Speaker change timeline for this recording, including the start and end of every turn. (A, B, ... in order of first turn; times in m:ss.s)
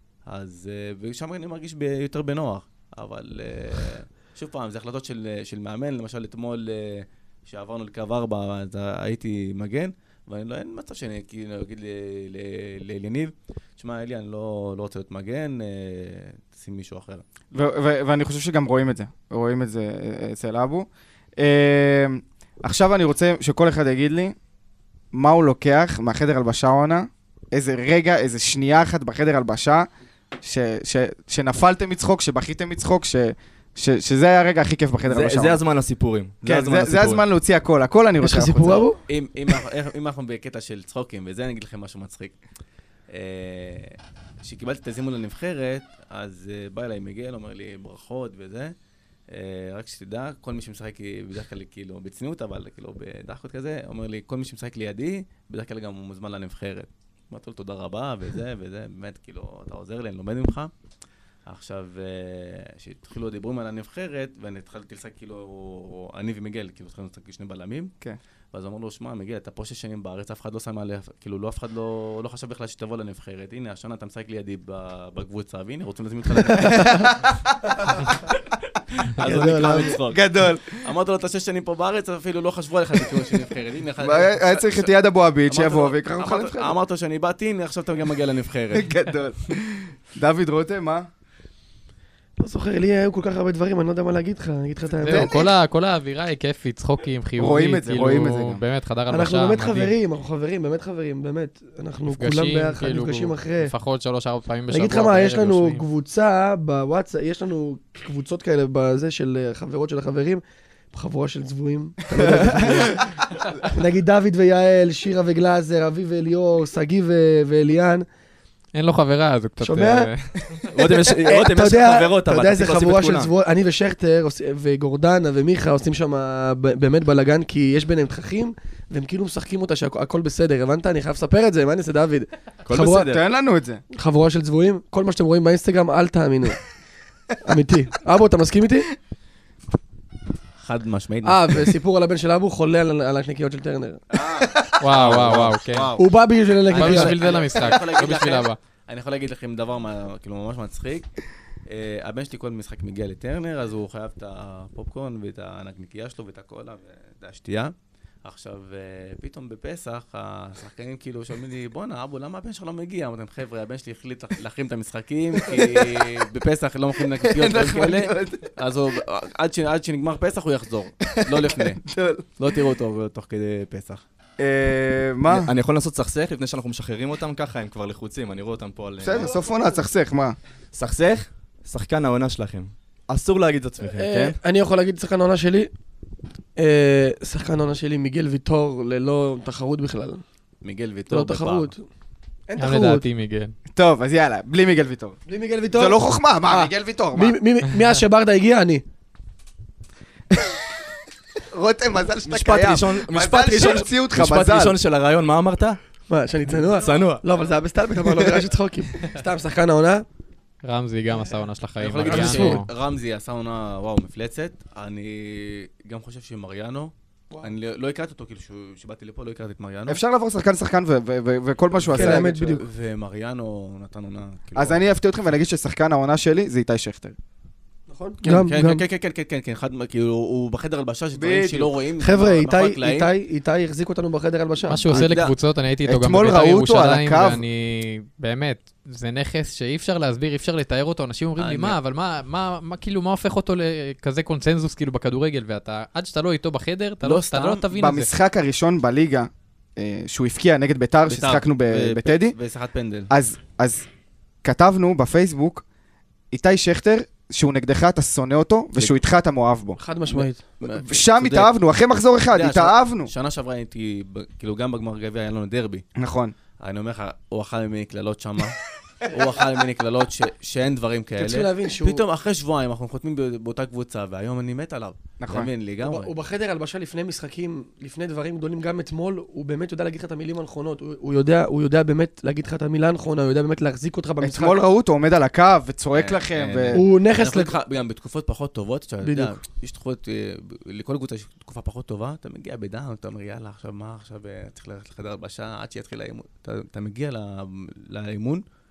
0:00.3-0:17.2 A
0:17.5-0:20.9 B
0:21.4-0:24.4 B
0:25.1-0:29.9 B
0:30.4-0:35.6 B
0:35.1-0:37.2 C
0:36.4-0:38.9 B
0:38.2-0:39.0 D
0:39.1-0:42.4 A
0:43.1-0:48.7 A
0:49.3-1:00.7 A
1:01.5-1:07.9 A
1:08.5-1:17.1 A
1:16.6-1:18.3 B
1:19.2-1:20.2 A
1:19.2-1:20.7 B
1:19.2-1:20.0 D
1:20.8-1:24.9 A
1:24.0-1:26.8 B
1:25.5-1:28.9 A
1:28.7-1:31.1 B
1:32.4-1:35.4 D
1:35.0-1:39.9 E
1:35.1-1:35.5 B
1:37.4-1:38.6 B
1:39.1-1:43.7 D
1:42.1-1:45.8 E
1:44.7-1:53.1 D
1:52.1-1:53.0 B
1:53.7-1:58.1 D
1:58.7-2:00.7 E
1:59.6-2:00.1 D
2:00.6-2:03.3 C
2:00.9-2:13.2 D
2:12.7-2:13.2 C
2:13.1-2:13.8 B
2:14.0-2:16.6 D
2:17.4-2:18.9 D
2:20.6-2:21.8 A
2:21.2-2:24.0 D
2:24.1-2:26.1 A
2:24.8-2:25.9 E
2:26.0-2:27.2 D
2:26.7-2:31.1 A
2:26.7-2:28.6 E
2:31.7-2:37.7 A
2:38.2-2:51.8 A
2:45.4-2:46.0 B
2:47.2-2:48.5 B
2:51.1-2:52.3 B
2:52.4-2:54.0 A
2:54.4-2:55.5 B
2:55.3-2:59.4 C
2:59.0-3:00.4 B
3:00.7-3:04.4 C
3:03.8-3:05.7 D
3:06.6-3:10.2 D
3:10.6-3:11.7 A
3:11.1-3:11.8 D
3:12.5-3:13.0 D
3:12.6-3:13.6 E
3:13.7-3:15.2 B
3:15.3-3:18.8 D
3:15.7-3:17.4 B
3:20.3-3:20.6 B
3:21.5-3:24.8 B
3:22.2-3:25.8 C
3:26.1-3:30.1 D
3:26.7-3:27.2 C
3:30.6-3:32.7 E
3:31.8-3:40.0 A
3:32.1-3:32.6 D
3:39.9-3:42.6 B
3:41.7-3:44.8 A
3:41.9-3:42.6 D
3:44.6-3:47.2 B
3:47.9-3:48.8 D
3:48.2-3:53.1 A
3:51.2-3:51.7 B
3:52.0-3:55.1 D
3:54.7-4:08.1 E
3:54.9-3:55.3 A
3:55.9-3:57.4 B
4:01.4-4:01.8 A
4:07.0-4:07.7 A
4:07.7-4:12.4 B
4:11.1-4:13.1 A
4:13.1-4:13.9 B
4:14.4-4:15.6 B
4:16.3-4:19.8 B
4:19.8-4:20.4 D
4:20.1-4:21.5 A
4:20.6-4:23.1 B
4:22.3-4:25.8 A
4:26.0-4:26.3 B
4:26.6-4:36.1 A
4:31.2-4:32.0 D
4:35.2-4:35.5 B
4:35.8-4:44.6 D
4:44.2-4:46.8 B
4:45.9-4:58.4 A
4:46.7-4:47.5 D
4:49.0-4:49.4 D